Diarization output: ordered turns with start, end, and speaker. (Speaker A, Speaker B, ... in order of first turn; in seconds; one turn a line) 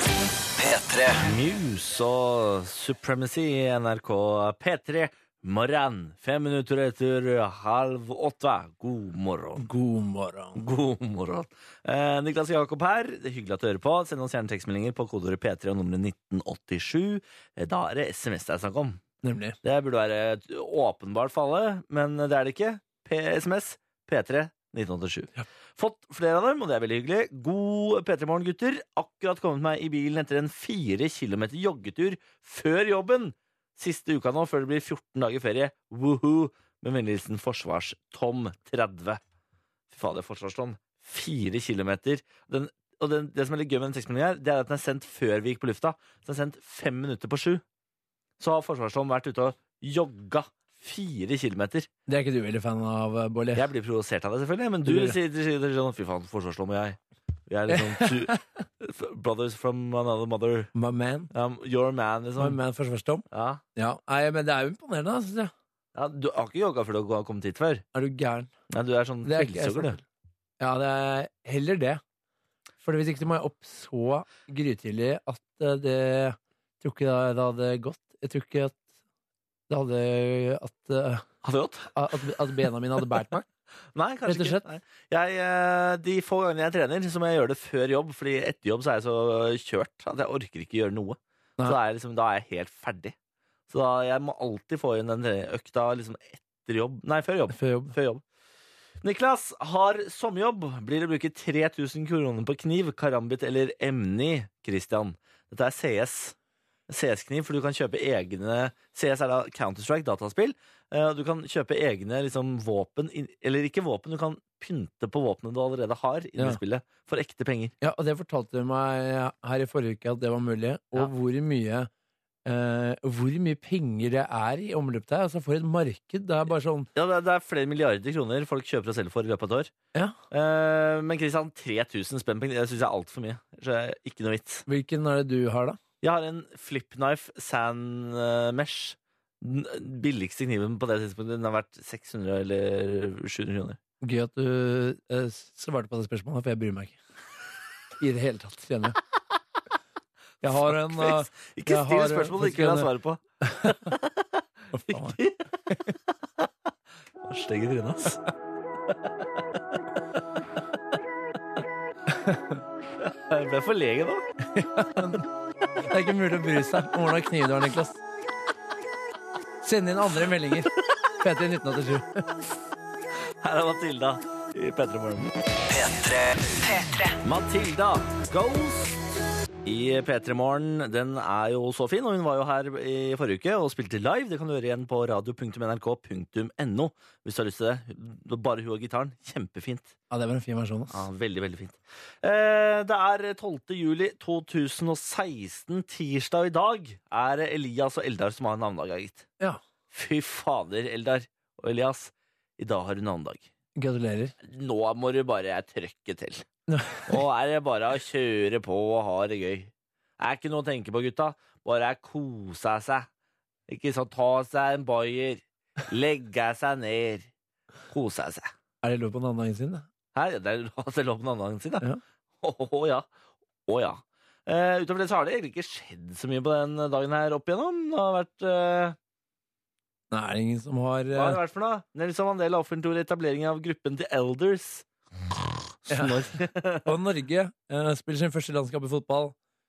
Speaker A: 0.6-1.2
Speaker B: 1.2-9.7
Speaker C: 9.6-10.6
Speaker B: 10.6-19.0
Speaker C: 19.2-19.6
Speaker B: 19.6-39.2
Speaker B: 39.9-47.6
Speaker B: 48.4-51.9
Speaker C: 52.1-53.6
Speaker B: 53.5-60.7
Speaker C: 54.8-55.2
Speaker C: 57.7-58.4
Speaker C: 60.7-61.3
Speaker B: 61.3-62.6
Speaker C: 62.4-65.5
Speaker B: 63.3-63.6
Speaker B: 65.9-67.8
Speaker C: 67.9-68.5
Speaker B: 68.7-70.0
Speaker C: 69.2-70.0
Speaker C: 70.6-72.0
Speaker C: 72.8-78.8
Speaker C: 79.7-81.2
Speaker B: 81.4-82.2
Speaker C: 81.9-83.5
Speaker B: 83.9-93.1
Speaker C: 84.2-84.6
Speaker B: 93.7-98.2
Speaker C: 97.5-98.0
Speaker B: 99.0-106.3
Speaker B: 106.9-117.7
Speaker C: 117.8-121.9
Speaker C: 122.5-126.9
Speaker B: 126.9-129.7
Speaker B: 130.3-134.6
Speaker C: 134.7-135.8
Speaker B: 136.0-143.8
Speaker C: 144.0-147.0
Speaker C: 148.0-149.0
Speaker C: 150.4-152.9
Speaker B: 150.4-155.5
Speaker C: 153.4-153.9
Speaker C: 154.7-155.2
Speaker B: 157.2-158.2
Speaker C: 162.1-162.6
Speaker B: 163.0-164.3
Speaker C: 164.5-165.2
Speaker C: 165.9-168.0
Speaker C: 169.6-172.2
Speaker B: 173.4-175.3
Speaker A: 175.7-177.2
Speaker B: 177.2-179.0
Speaker B: 179.6-189.9
Speaker C: 190.1-191.1
Speaker B: 190.9-199.3
Speaker B: 199.9-203.5
Speaker C: 203.8-204.3
Speaker B: 204.4-206.4
Speaker C: 206.7-207.2
Speaker B: 207.1-213.1
Speaker B: 213.7-217.3
Speaker B: 217.9-218.5
Speaker C: 218.8-219.8
Speaker B: 220.1-221.8
Speaker B: 222.4-223.1
Speaker B: 223.7-228.9
Speaker C: 230.1-231.4
Speaker B: 231.1-236.9
Speaker C: 235.9-236.3
Speaker C: 236.8-239.3